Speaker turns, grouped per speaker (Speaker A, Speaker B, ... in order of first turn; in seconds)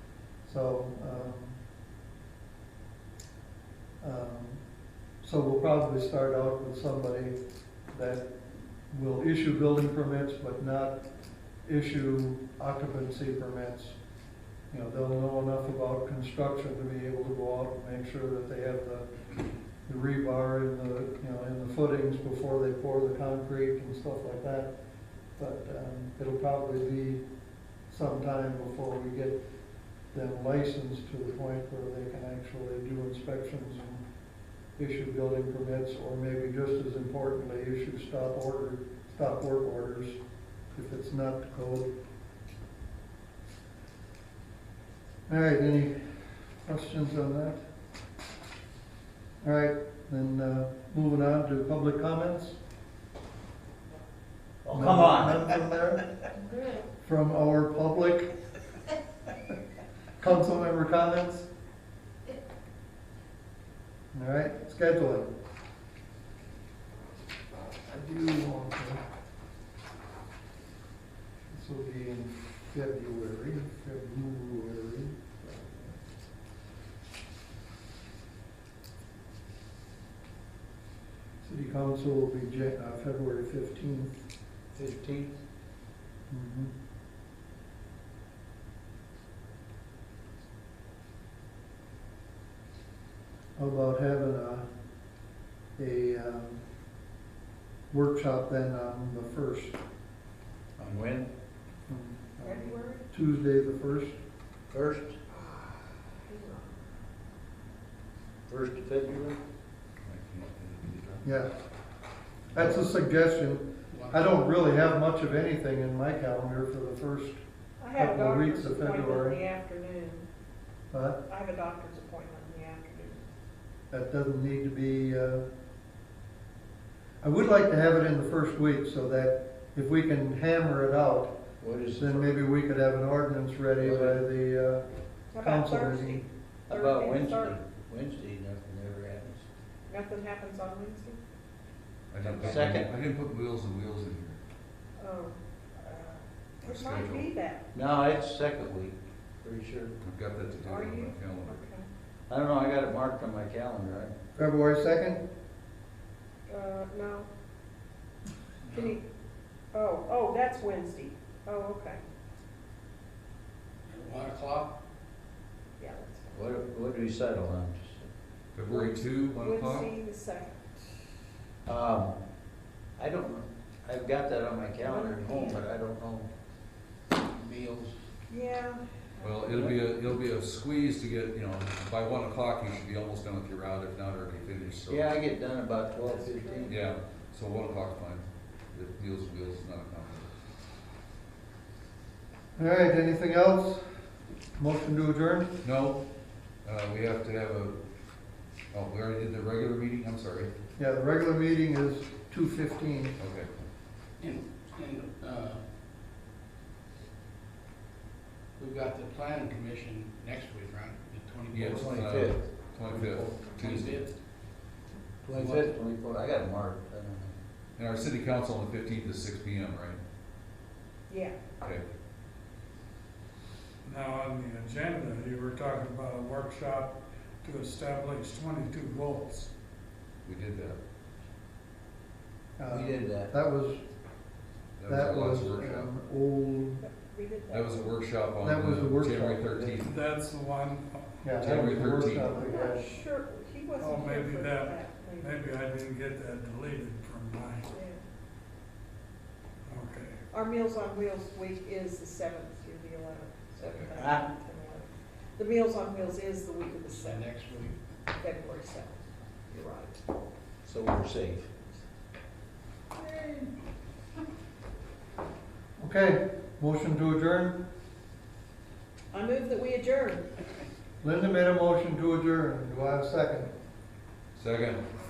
Speaker A: 0.5-1.6, 4.0-4.6, 5.2-7.3, 7.9-8.3, 8.9-11.0, 11.7-14.0, 14.7-19.1, 19.9-24.7, 25.4-27.2, 27.9-29.4, 30.1-34.0, 34.8-40.2, 40.7-41.9, 45.3-46.1, 46.6-47.6, 49.4-52.6, 54.7-56.0, 57.0-58.3, 60.2-61.5, 64.1-65.3, 67.9-69.0, 71.5-75.5, 81.4-84.2, 86.3-86.7, 93.6-94.7, 95.8-96.6, 97.9-99.8, 101.9-104.2, 111.2-111.5, 112.5-117.4, 118.0-119.4, 120.9-121.2, 123.9-125.5, 127.2-131.3, 131.9-134.8, 135.4-136.2, 154.4-155.2, 192.6-193.9, 194.6-195.6, 200.8-203.2, 232.6-233.8, 234.9-236.8, 238.4-239.8, 241.2-242.9, 265.8-267.6, 271.0-273.5
Speaker B: 54.6-55.5, 84.7-85.3, 100.8-101.3, 104.7-105.2, 108.5-109.4, 131.6-132.4, 133.8-134.2, 136.7-139.4, 142.3-142.9, 147.7-149.9, 152.3-154.1, 166.3-168.1, 171.7-172.2, 173.0-176.3, 179.5-179.8, 184.9-186.8, 211.7-212.4, 213.0-213.3, 215.3-217.3, 232.7-233.3, 253.9-254.3, 260.7-261.5
Speaker C: 102.4-103.1, 105.3-106.8, 117.8-120.2, 121.3-123.2, 135.3-137.6, 139.9-141.2, 145.0-147.7, 150.7-151.8, 156.5-157.3, 158.7-159.0, 159.7-162.0, 165.8-166.5, 168.7-170.8, 174.8-175.7, 178.3-179.7, 186.0-186.9, 221.1-221.4, 236.8-238.0, 242.2-245.5, 247.7-248.0, 250.3-257.3, 258.2-260.0, 269.1-270.3
Speaker D: 110.0-111.3, 142.1-144.4, 146.6-147.3, 150.0-151.6, 168.5-169.9, 179.2-185.2, 186.7-190.3, 195.6-196.1, 196.6-197.8, 198.7-200.5, 203.2-203.5, 211.5-214.0, 217.8-220.0, 221.6-221.9, 230.2-230.8, 234.8-235.9, 237.5-240.0, 241.4-242.3, 253.6-253.9, 274.4-274.8
Speaker E: 113.9-114.3, 158.7-159.0, 163.9-164.8, 177.1-178.0, 204.2-205.6, 208.6-212.0, 213.6-214.1, 215.2-215.8, 256.9-257.8, 262.9-263.5
Speaker F: 223.8-229.5, 239.8-241.3, 243.8-247.7, 249.7-250.2